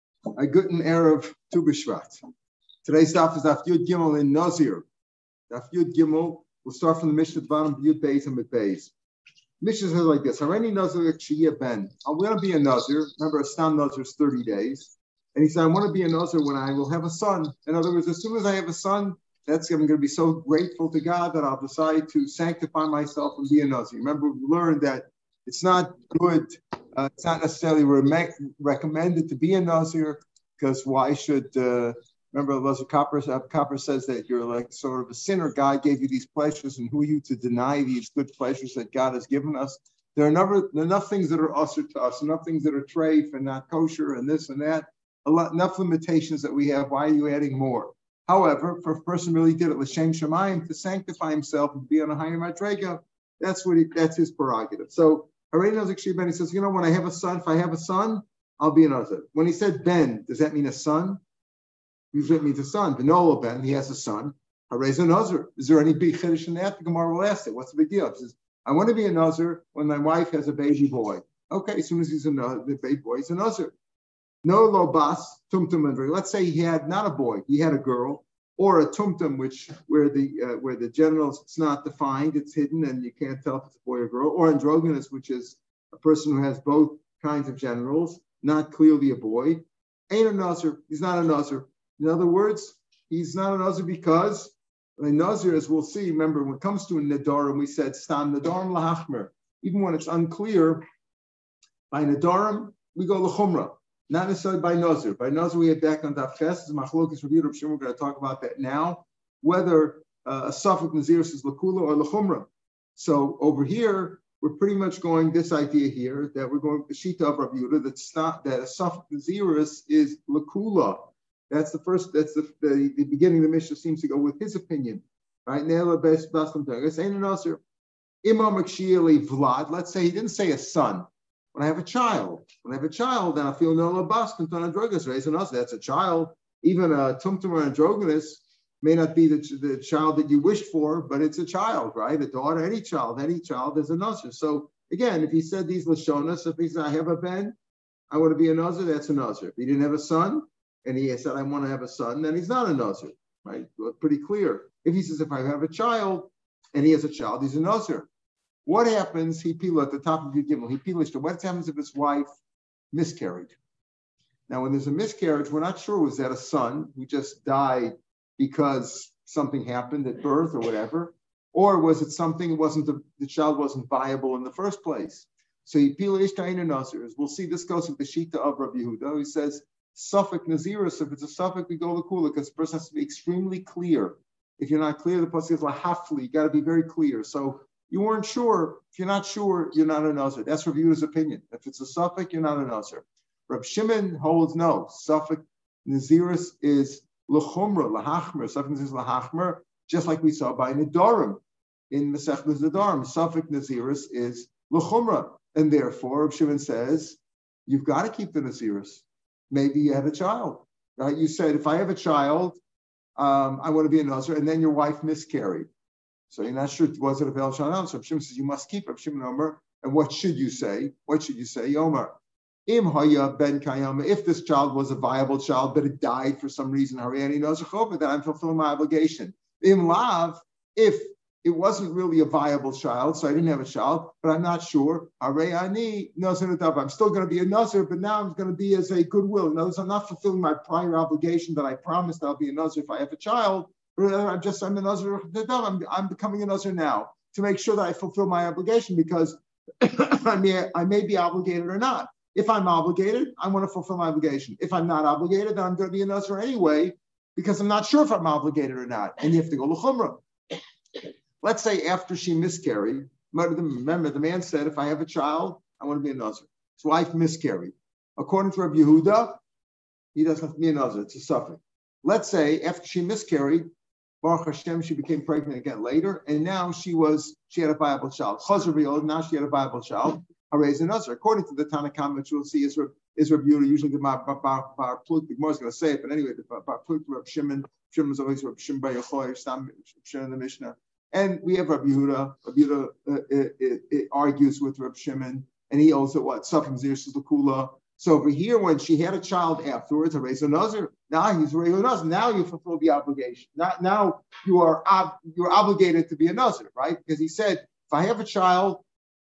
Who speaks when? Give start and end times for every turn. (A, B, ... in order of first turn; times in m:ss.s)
0:00.4-0:02.2 A
0:02.8-0:04.8 A
0:05.5-0:08.9 A
0:09.6-1:01.2 A
1:02.1-1:13.7 A
1:14.4-1:40.8 A
1:41.9-2:07.6 A
2:08.2-2:27.5 A
2:28.1-2:38.1 A
2:38.6-2:42.3 A
2:42.9-2:43.6 A
2:44.5-3:32.6 A
3:33.2-3:35.7 A
3:36.3-3:42.1 A
3:42.7-4:20.2 A
4:21.4-4:29.4 A
4:30.1-4:33.7 A
4:34.2-5:08.8 A